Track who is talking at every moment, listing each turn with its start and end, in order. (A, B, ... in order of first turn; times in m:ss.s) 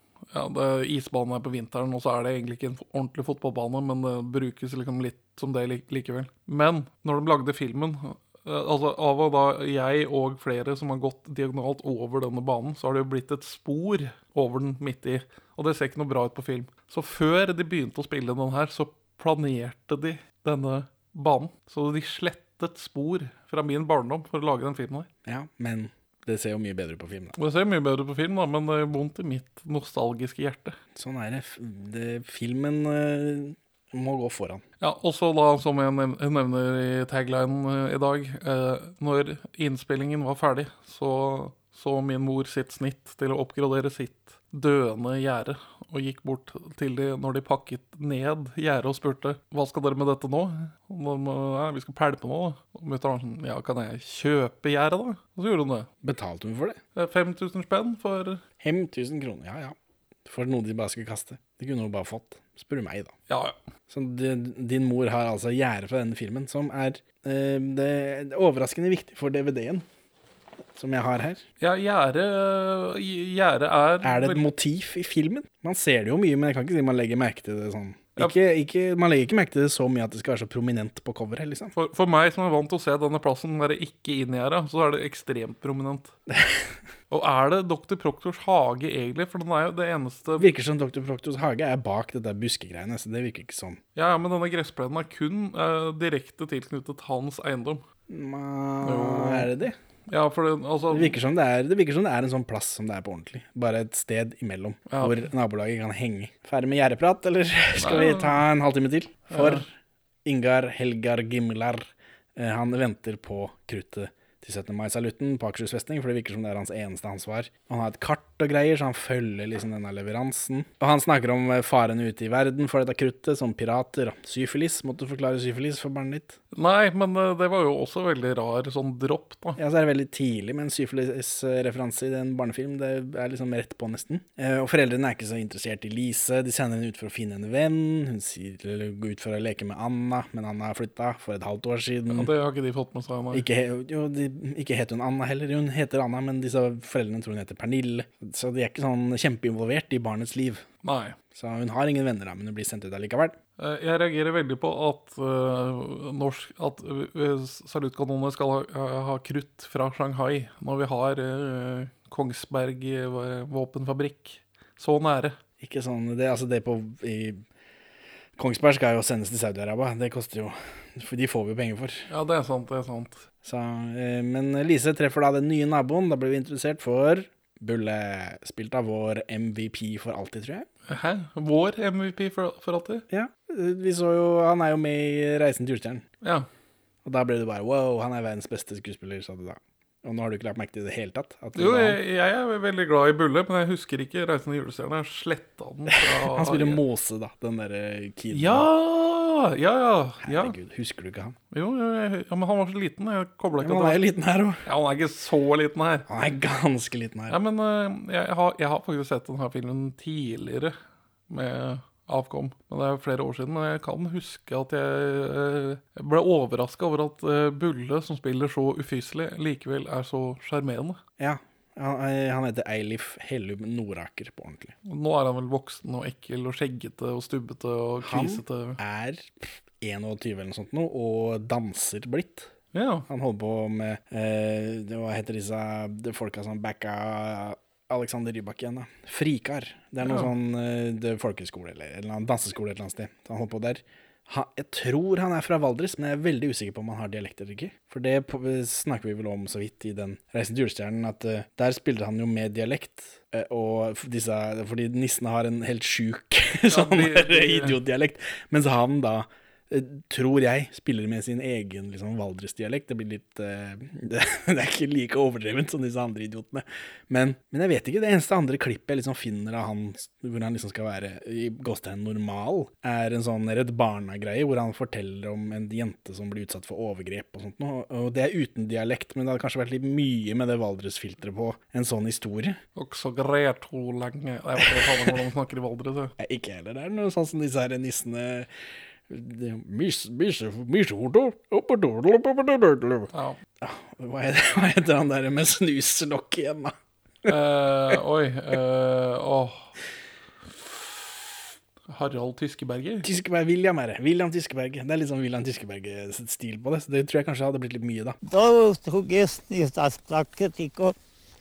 0:00.3-0:25.1 A
0:25.2-0:27.4 B
0:27.4-0:30.8 A
0:31.0-0:34.6 B
0:34.8-0:55.9 A
0:56.0-0:56.8 B
0:57.0-0:58.4 A
0:58.6-0:59.7 B
1:00.2-1:03.1 B
1:03.3-1:03.6 A
1:03.9-1:09.8 B
1:10.8-1:11.4 B
1:11.6-1:14.4 A
1:14.0-1:21.7 B
1:21.7-1:26.1 A
1:26.3-1:26.7 B
1:27.1-1:30.5 A
1:30.4-1:33.8 B
1:33.9-1:37.8 A
1:38.1-1:39.7 B
1:38.8-1:39.5 A
1:40.1-1:41.2 A
1:40.9-1:49.7 B
1:44.9-1:45.3 A
1:47.8-1:48.4 A
1:49.3-1:49.6 A
1:50.2-2:06.4 B
2:06.5-2:09.6 A
2:09.6-2:22.3 B
2:22.1-2:23.4 A
2:23.3-2:30.6 B
2:30.8-2:31.2 A
2:31.3-2:33.4 B
2:33.6-2:45.4 A
2:45.6-2:47.4 B
2:48.4-2:52.1 B
2:52.1-2:53.2 A
2:53.4-3:00.7 B
3:00.9-3:03.0 A
3:03.1-3:06.0 B
3:06.2-3:06.5 A
3:07.0-3:12.0 B
3:11.6-3:16.8 A
3:16.0-3:18.7 B
3:18.3-3:20.5 A
3:20.2-3:21.4 B
3:21.5-3:24.0 A
3:23.6-3:24.6 B
3:24.6-3:26.0 A
3:26.1-3:27.4 B
3:27.3-3:30.7 A
3:31.3-3:41.0 A
3:41.2-3:44.7 B
3:44.8-3:48.8 A
3:48.0-3:52.5 B
3:52.7-3:53.0 A
3:53.1-4:42.6 B
4:00.0-4:00.3 A
4:16.7-4:17.8 A
4:42.8-4:46.1 A
4:44.6-4:45.1 B
4:46.2-4:48.5 B
4:49.1-4:53.1 B
4:53.1-4:53.4 A
4:53.6-4:56.7 B
4:57.3-4:59.7 A
5:00.5-5:01.3 A
5:01.9-5:03.0 A
5:03.0-5:08.2 B
5:08.3-5:10.9 C